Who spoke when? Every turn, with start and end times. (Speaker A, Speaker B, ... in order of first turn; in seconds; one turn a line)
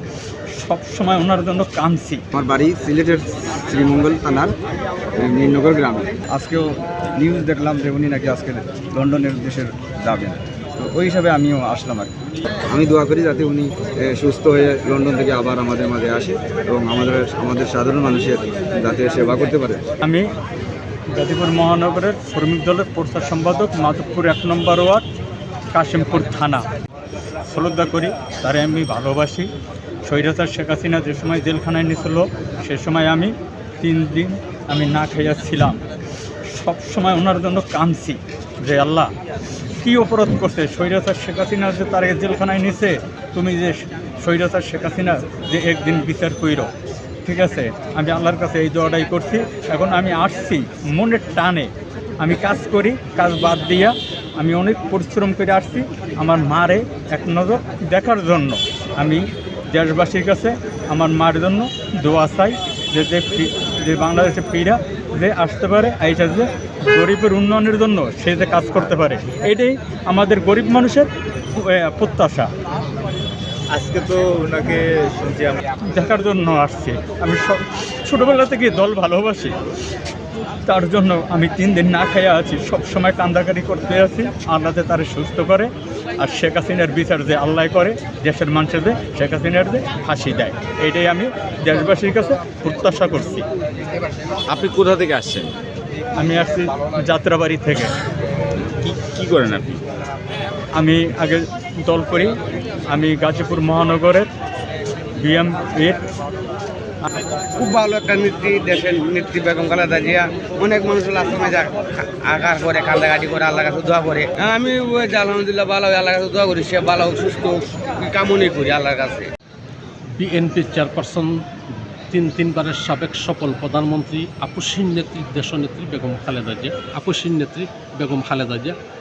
Speaker A: 0.5-2.2
Speaker B: 2.3-4.5
Speaker B: 5.2-12.1
Speaker B: 12.7-19.8
Speaker A: 20.0-20.3
Speaker A: 21.1-25.1
Speaker A: 25.7-26.7
Speaker A: 27.4-29.5
Speaker A: 30.0-35.8
Speaker A: 36.5-39.1
Speaker A: 39.8-46.7
Speaker A: 47.2-72.5
Speaker C: 73.7-75.6
Speaker A: 75.8-79.6
Speaker A: 80.6-93.4
Speaker C: 94.5-95.5
Speaker A: 96.2-97.9
Speaker C: 98.7-99.8
Speaker A: 100.7-102.4
Speaker A: 102.9-104.3
Speaker A: 105.1-106.0
Speaker D: 107.5-119.3
Speaker E: 120.1-121.3
Speaker E: 122.1-128.7